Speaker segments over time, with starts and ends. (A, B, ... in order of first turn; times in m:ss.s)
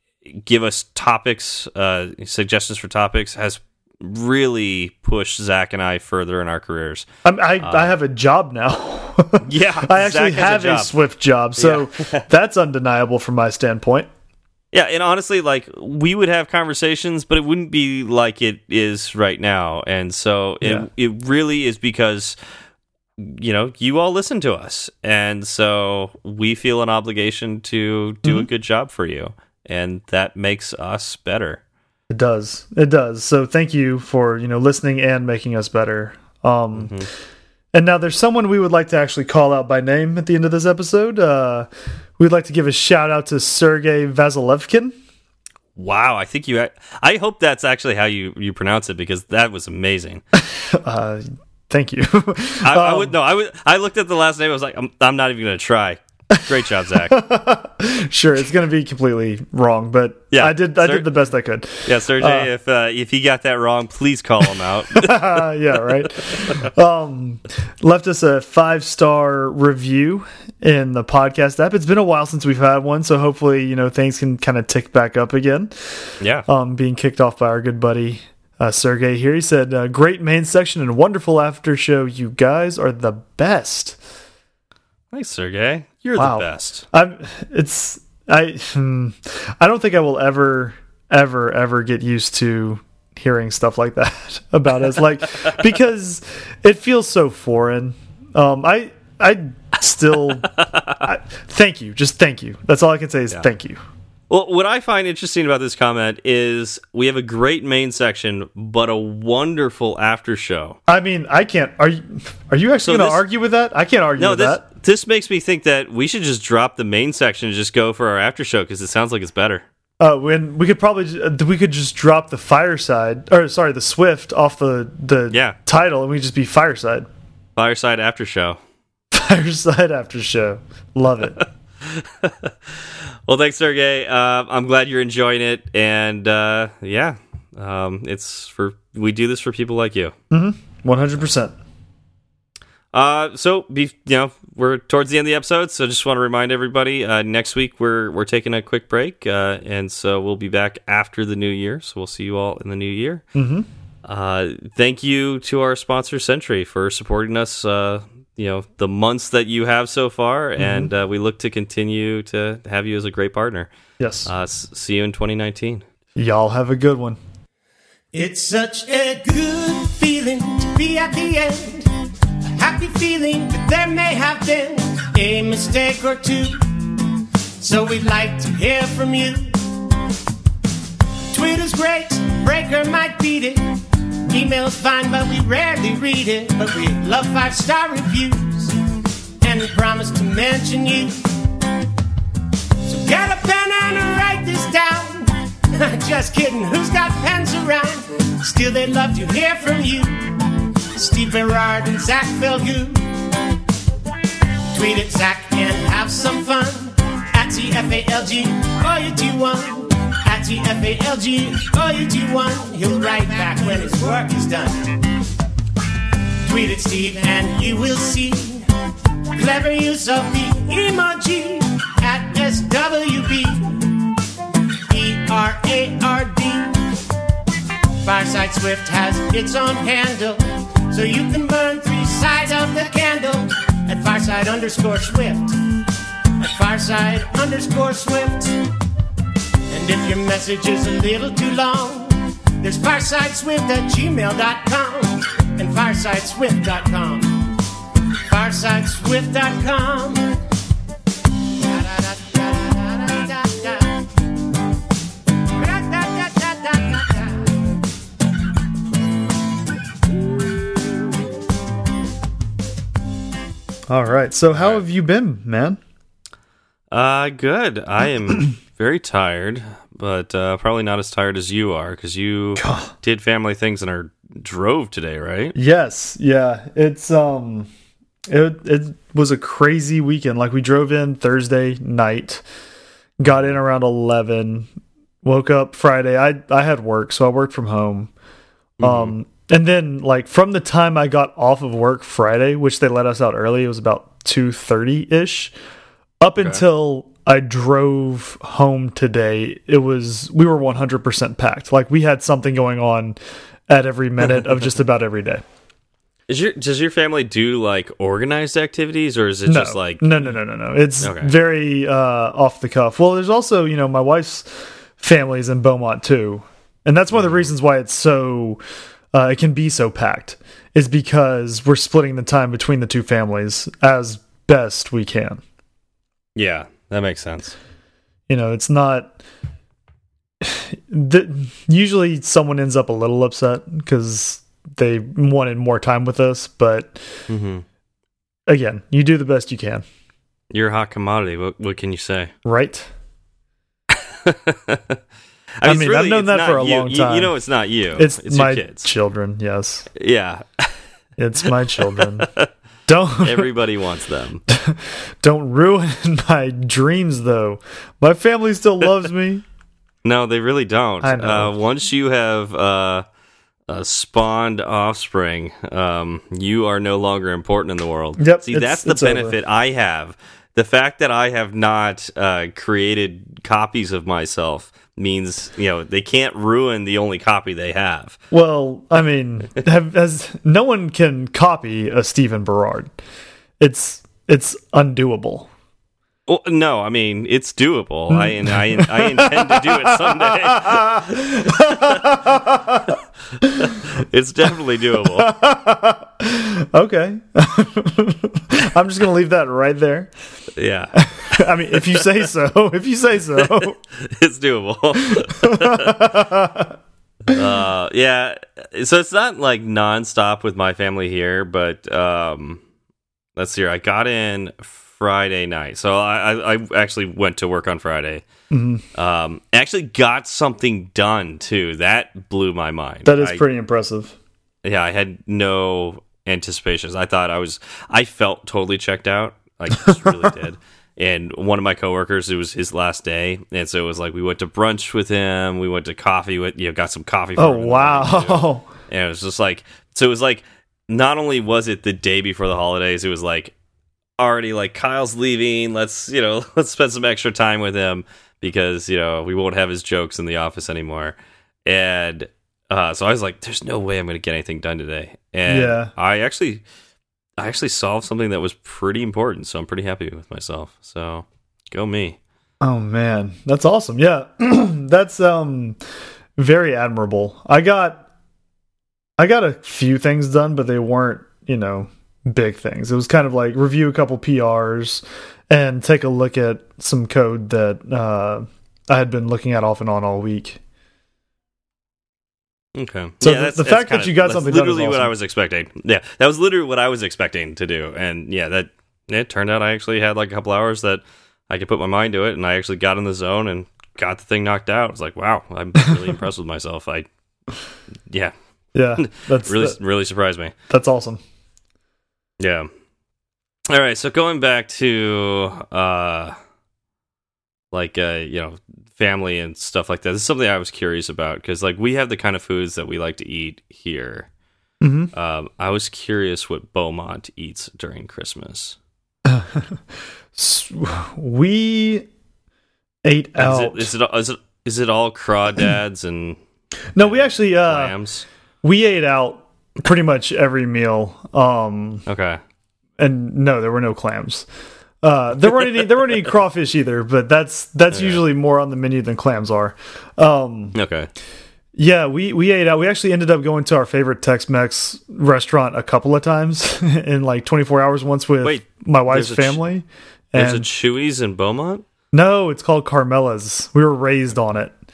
0:00.2-0:07.0 A
0:07.2-0:14.1 B
0:07.6-0:07.9 A
0:09.4-0:10.9 A
0:11.6-0:12.2 A
0:14.7-0:22.4 A
0:20.6-0:20.9 B
0:23.2-0:31.6 A
0:32.1-0:36.9 B
0:36.8-0:37.1 A
0:37.7-0:44.9 B
0:45.8-0:50.2 A
0:50.4-0:53.1 B
0:52.6-0:57.2 A
0:57.1-1:02.5 B
1:00.3-1:01.1 A
1:01.8-1:05.5 A
1:04.9-1:24.0 B
1:06.0-1:06.6 A
1:16.2-1:16.5 A
1:25.1-1:26.8 A
1:26.2-1:43.8 B
1:40.5-1:41.0 A
1:44.3-1:50.8 A
1:50.9-1:54.6 B
1:52.8-1:53.2 A
1:54.2-1:59.6 A
2:00.0-2:07.1 B
2:05.3-2:05.6 A
2:07.6-2:08.6 A
2:09.1-2:11.4 B
2:11.8-2:20.1 A
2:20.3-2:21.6 B
2:22.9-2:33.2 A
2:33.3-2:33.7 B
2:34.0-2:43.7 A
2:40.6-2:40.9 B
2:44.0-2:44.3 B
2:44.2-2:45.8 A
2:46.2-2:47.2 B
2:48.1-2:59.8 C
3:01.3-3:08.8 C
3:09.4-3:11.5 C
3:12.8-3:23.0 C
3:24.7-3:35.0 C
3:36.4-3:38.6 C
3:39.3-3:44.1 C
3:44.9-3:47.0 C
3:48.0-3:55.8 C
3:56.4-3:58.7 C
3:59.7-4:07.5 C
4:08.2-4:10.4 C
4:11.5-4:14.1 C
4:15.5-4:17.6 C
4:23.9-4:25.8 B
4:24.5-4:24.8 A
4:26.9-4:35.5 A
4:32.6-4:32.9 B
4:35.5-4:37.7 B
4:38.3-4:42.4 B
4:43.2-4:44.7 B
4:45.2-4:48.1 B
4:48.8-4:49.1 A
4:48.8-4:55.5 B
4:56.2-5:03.2 B
5:03.7-5:05.4 B
5:06.3-5:10.3 A
5:09.5-5:18.6 B
5:11.0-5:11.3 A
5:17.1-5:17.5 A
5:19.1-5:25.4 B
5:26.4-5:27.6 A
5:28.3-5:29.1 B
5:30.4-5:37.0 B
5:37.3-5:37.6 A
5:38.5-5:39.8 B
5:40.5-5:42.3 A
5:42.4-5:42.9 B
5:43.9-5:45.0 A
5:45.6-5:48.9 A
5:45.6-5:47.3 B
5:48.0-5:49.9 B
5:49.9-5:50.7 A
5:51.2-5:52.3 B
5:51.9-5:52.5 A
5:52.9-5:53.5 B
5:53.2-5:54.4 A
5:54.5-5:59.4 B
6:00.0-6:03.0 A
6:01.0-6:01.5 B
6:03.7-6:18.2 A
6:08.2-6:09.4 B
6:18.3-6:22.9 B
6:23.6-6:25.5 B
6:26.3-6:32.3 A
6:28.1-6:33.7 B
6:33.5-6:35.3 A
6:35.0-6:40.1 B
6:40.6-6:42.0 A
6:41.0-6:43.8 B
6:43.9-6:46.2 A
6:45.3-6:46.8 B
6:47.3-6:52.6 A
6:53.4-6:58.2 A
6:58.5-6:58.8 B
6:58.9-7:03.4 A
7:03.0-7:04.1 B
7:04.6-7:23.5 A
7:09.8-7:10.3 B
7:17.4-7:18.7 B
7:24.2-7:36.6 A
7:35.5-7:35.9 B
7:37.4-7:42.2 A
7:42.6-7:45.8 B
7:46.4-7:48.0 B
7:49.2-8:00.6 B
8:02.7-8:17.1 A
8:03.2-8:05.1 B
8:18.7-8:19.8 B
8:19.0-8:20.5 A
8:20.7-8:21.2 B
8:22.4-8:22.7 A
8:23.7-8:26.3 A
8:27.7-8:34.3 A
8:34.8-8:35.1 B
8:35.1-8:38.8 A
8:39.2-8:39.8 B
8:40.3-8:42.1 B
8:43.0-8:43.9 B
8:43.4-8:46.4 A
8:46.9-8:47.9 B
8:47.0-8:48.2 A
8:48.6-8:52.0 B
8:52.1-8:52.4 A
8:53.0-8:54.5 B
8:55.0-9:00.8 B
8:57.9-8:58.2 A
9:00.7-9:01.1 A
9:01.8-9:10.7 B
9:08.4-9:09.6 A
9:10.3-9:11.8 A
9:12.1-9:14.7 B